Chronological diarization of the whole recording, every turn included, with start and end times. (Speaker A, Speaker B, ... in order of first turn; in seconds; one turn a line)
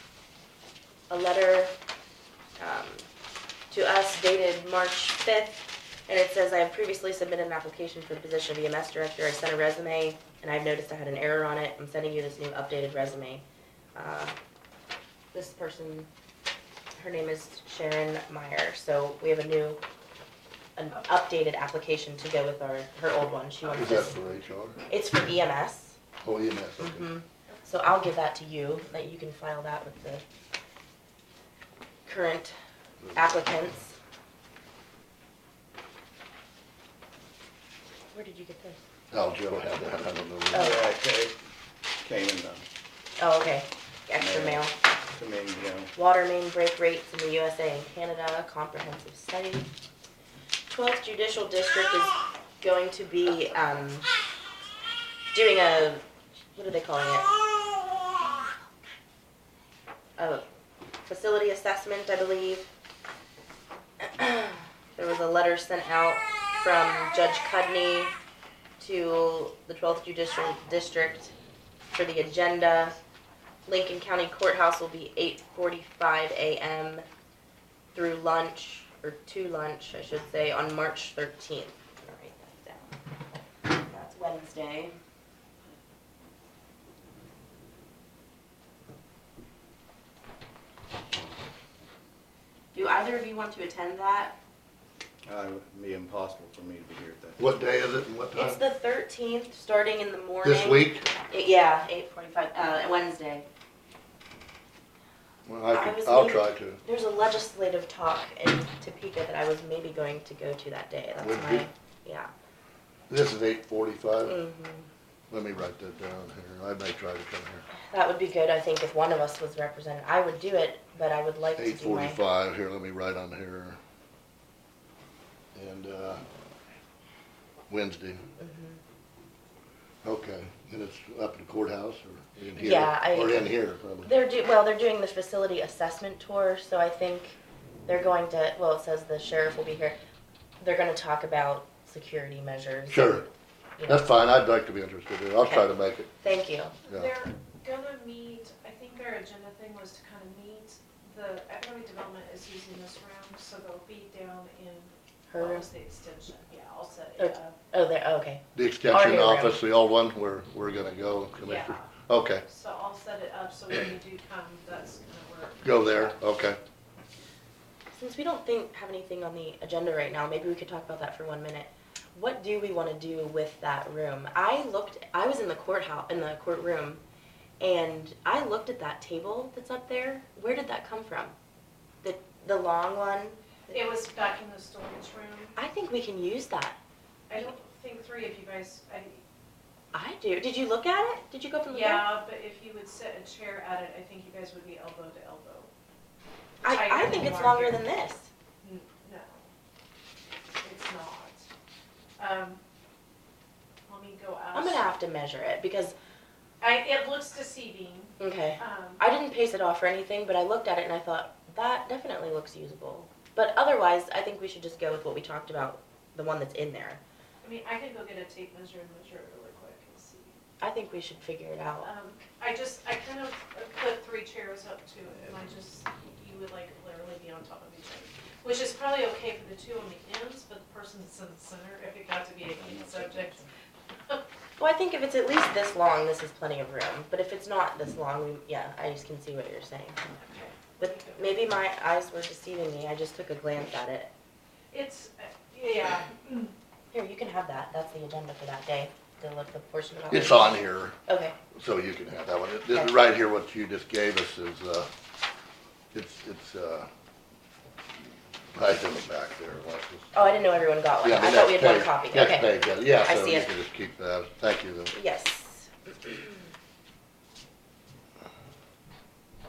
Speaker A: 1.1-1.7
Speaker A: 2.6-3.0
Speaker A: 3.7-13.4
Speaker A: 13.9-14.3
Speaker A: 15.3-16.1
Speaker A: 17.0-19.8
Speaker A: 20.8-24.1
Speaker B: 23.7-24.8
Speaker A: 24.9-26.0
Speaker B: 26.2-27.1
Speaker A: 26.8-30.2
Speaker A: 32.0-32.5
Speaker B: 33.0-33.3
Speaker A: 33.1-34.0
Speaker A: 38.1-38.8
Speaker B: 39.1-40.8
Speaker A: 40.5-40.9
Speaker C: 40.5-41.4
Speaker C: 42.0-42.6
Speaker A: 43.2-44.7
Speaker C: 44.2-45.9
Speaker A: 46.0-49.7
Speaker A: 50.7-54.1
Speaker A: 55.3-57.3
Speaker A: 60.2-60.5
Speaker A: 61.1-62.7
Speaker A: 64.0-68.1
Speaker A: 68.8-71.3
Speaker A: 71.9-73.0
Speaker A: 73.7-77.0
Speaker A: 77.9-82.9
Speaker A: 83.7-84.9
Speaker A: 92.7-94.3
Speaker C: 95.2-97.4
Speaker B: 97.4-98.6
Speaker A: 98.3-103.5
Speaker B: 100.4-101.0
Speaker B: 105.5-106.8
Speaker A: 105.7-112.3
Speaker B: 111.2-111.7
Speaker B: 113.1-114.4
Speaker A: 114.2-114.9
Speaker B: 115.3-117.7
Speaker A: 117.7-122.2
Speaker B: 121.6-123.8
Speaker B: 125.5-126.2
Speaker B: 127.7-128.2
Speaker A: 128.4-128.8
Speaker B: 130.0-134.1
Speaker A: 132.6-133.5
Speaker A: 134.0-137.3
Speaker A: 137.9-140.0
Speaker A: 140.6-143.3
Speaker B: 142.9-143.2
Speaker A: 143.8-144.1
Speaker B: 143.9-146.1
Speaker A: 145.4-146.7
Speaker D: 146.9-157.5
Speaker A: 155.3-155.7
Speaker A: 157.2-159.6
Speaker B: 158.5-162.4
Speaker D: 161.4-161.9
Speaker D: 162.4-166.1
Speaker B: 165.6-166.6
Speaker A: 167.9-177.0
Speaker A: 177.6-181.3
Speaker A: 182.0-183.7
Speaker D: 183.7-185.5
Speaker A: 185.6-186.8
Speaker D: 187.3-189.2
Speaker A: 189.9-192.1
Speaker D: 191.7-195.7
Speaker A: 196.6-198.3
Speaker D: 196.6-197.8
Speaker D: 198.6-199.5
Speaker D: 200.6-201.5
Speaker D: 202.2-202.6
Speaker D: 203.9-204.9
Speaker A: 204.5-205.9
Speaker D: 206.6-209.0
Speaker A: 208.2-217.0
Speaker D: 217.4-220.4
Speaker A: 220.6-221.9
Speaker D: 221.8-233.5
Speaker C: 232.6-233.4
Speaker A: 234.6-240.0
Speaker D: 240.2-241.4
Speaker A: 240.8-244.1
Speaker D: 244.7-246.5
Speaker A: 246.9-251.3
Speaker B: 250.1-250.9
Speaker B: 251.5-254.9
Speaker B: 255.9-256.9
Speaker B: 258.5-260.3
Speaker A: 260.1-263.5
Speaker B: 261.0-264.9
Speaker A: 264.9-266.4